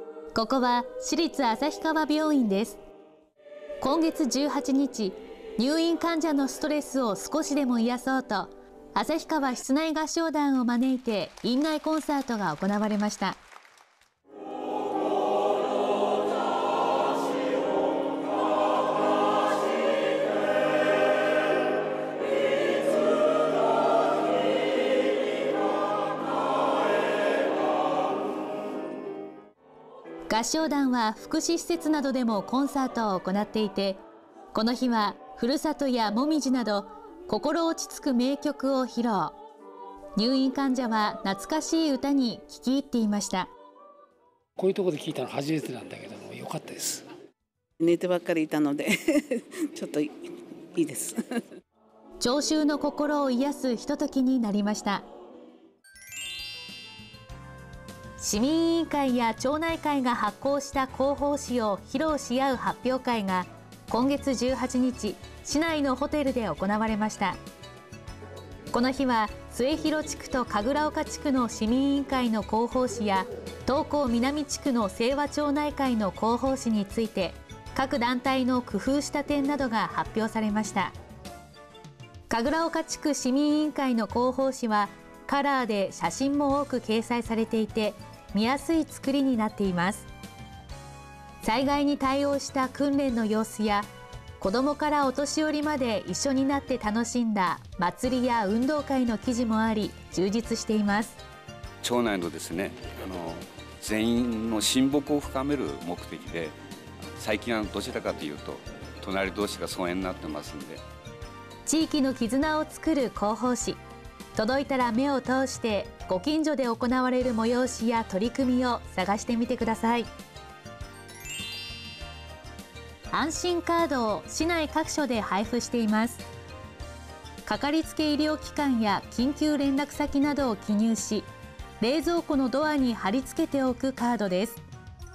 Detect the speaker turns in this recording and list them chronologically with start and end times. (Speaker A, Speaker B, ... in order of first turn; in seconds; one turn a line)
Speaker A: 0.3-2.8
Speaker A: 3.8-13.4
Speaker A: 30.3-34.0
Speaker A: 34.5-39.4
Speaker A: 40.2-43.5
Speaker B: 44.6-47.0
Speaker C: 47.8-51.4
Speaker A: 52.2-55.0
Speaker A: 58.2-67.4
Speaker A: 68.7-80.9
Speaker A: 82.3-90.1
Speaker A: 91.4-93.9
Speaker A: 94.4-101.2
Speaker D: 101.8-106.5
Speaker D: 107.2-110.8
Speaker A: 111.7-113.8
Speaker A: 114.3-120.1
Speaker A: 123.1-126.2
Speaker A: 127.4-131.3
Speaker A: 131.8-134.6